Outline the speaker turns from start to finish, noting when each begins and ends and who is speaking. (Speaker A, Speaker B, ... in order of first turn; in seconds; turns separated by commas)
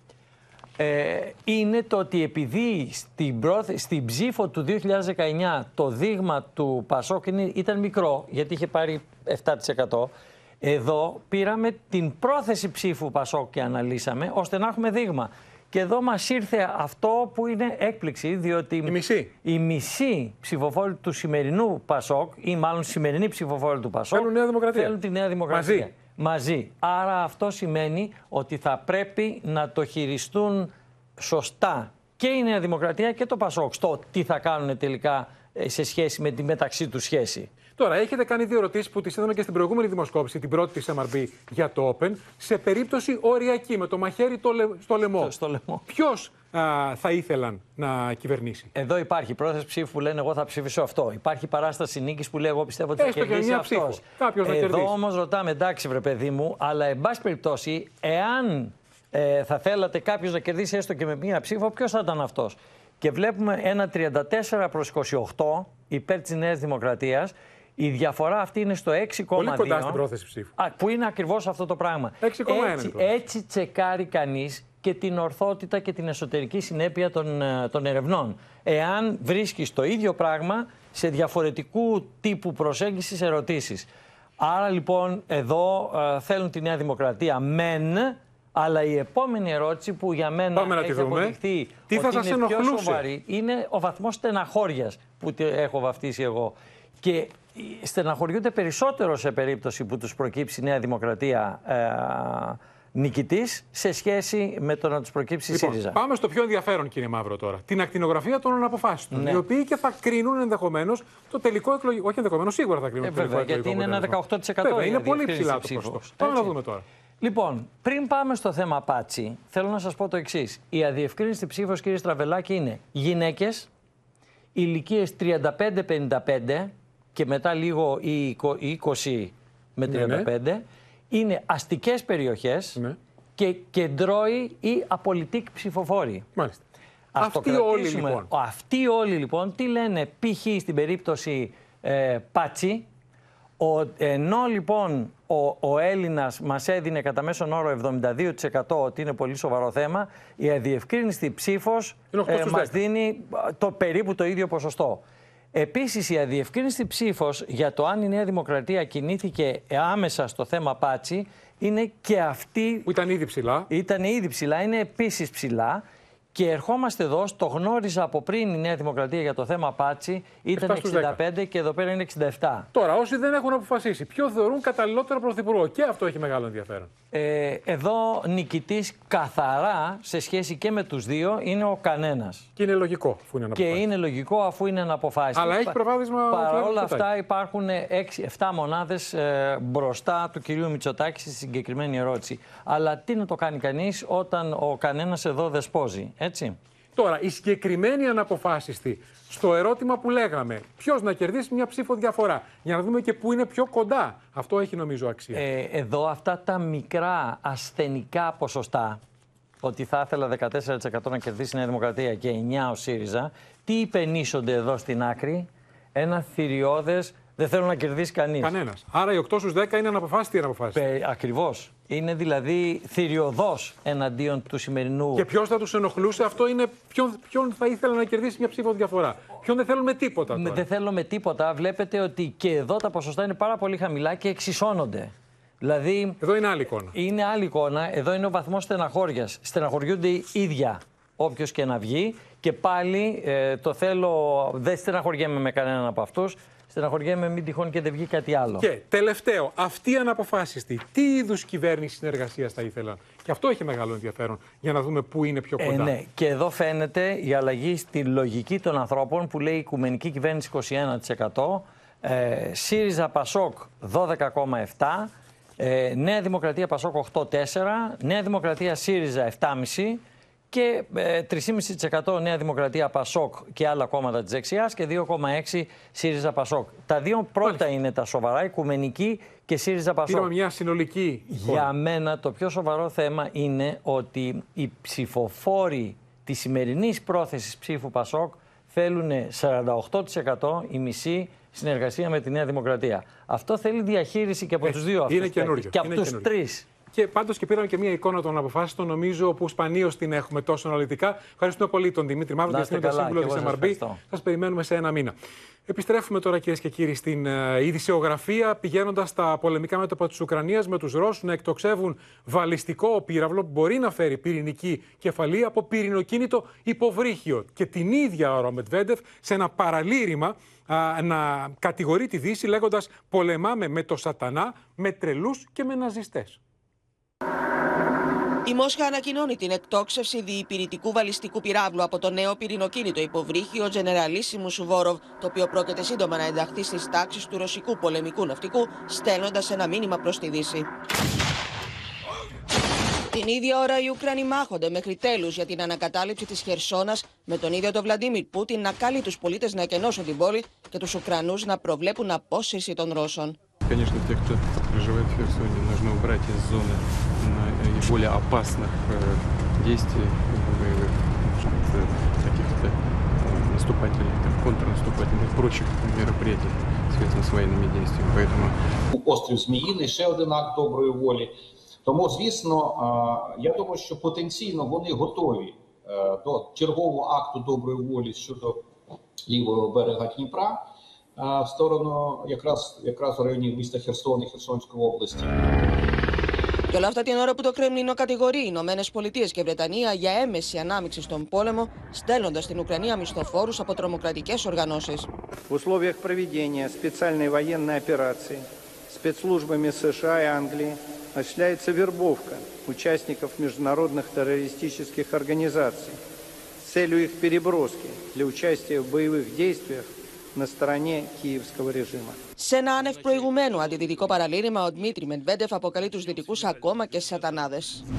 Speaker A: 0.8-37.5, Speaker B: 18.9-19.3, Speaker B: 24.1-24.9, Speaker B: 25.5-25.9, Speaker B: 37.8-45.3, Speaker A: 45.1-45.8, Speaker B: 45.9-48.7, Speaker A: 48.8-70.0, Speaker B: 53.0-54.9, Speaker B: 69.3-70.5, Speaker A: 70.6-83.9, Speaker B: 72.2-73.1, Speaker A: 84.4-106.0, Speaker B: 90.5-91.4, Speaker B: 91.9-93.0, Speaker B: 105.5-116.8, Speaker A: 109.1-109.4, Speaker A: 113.0-116.5, Speaker A: 117.2-123.7, Speaker A: 124.6-132.8, Speaker B: 129.9-130.3, Speaker A: 133.4-136.2, Speaker A: 137.2-142.9, Speaker B: 137.2-138.3, Speaker A: 143.6-155.0, Speaker B: 152.1-152.8, Speaker A: 155.6-162.9, Speaker B: 162.9-163.7, Speaker A: 163.7-165.8, Speaker A: 166.3-172.7, Speaker B: 170.6-171.2, Speaker B: 172.7-176.9, Speaker A: 177.1-182.5, Speaker B: 182.6-183.8, Speaker A: 183.6-185.8, Speaker B: 185.3-187.1, Speaker A: 186.3-196.6, Speaker B: 197.0-205.4, Speaker A: 205.3-209.0, Speaker A: 209.6-218.5, Speaker B: 218.4-220.8, Speaker A: 220.7-225.3, Speaker B: 225.2-230.7, Speaker A: 230.3-236.2, Speaker B: 236.2-236.9, Speaker A: 236.9-248.7, Speaker B: 248.6-255.9, Speaker A: 255.6-280.3, Speaker B: 280.1-281.7, Speaker A: 281.3-296.6, Speaker B: 294.6-296.3, Speaker B: 296.9-305.1, Speaker A: 302.5-304.0, Speaker B: 305.7-326.4, Speaker C: 328.4-340.7, Speaker C: 343.1-353.4, Speaker D: 353.7-368.6, Speaker E: 368.9-371.3, Speaker E: 371.9-378.7, Speaker E: 379.3-385.5, Speaker C: 386.7-395.1, Speaker F: 395.5-406.0, Speaker F: 406.6-412.2, Speaker C: 412.4-417.8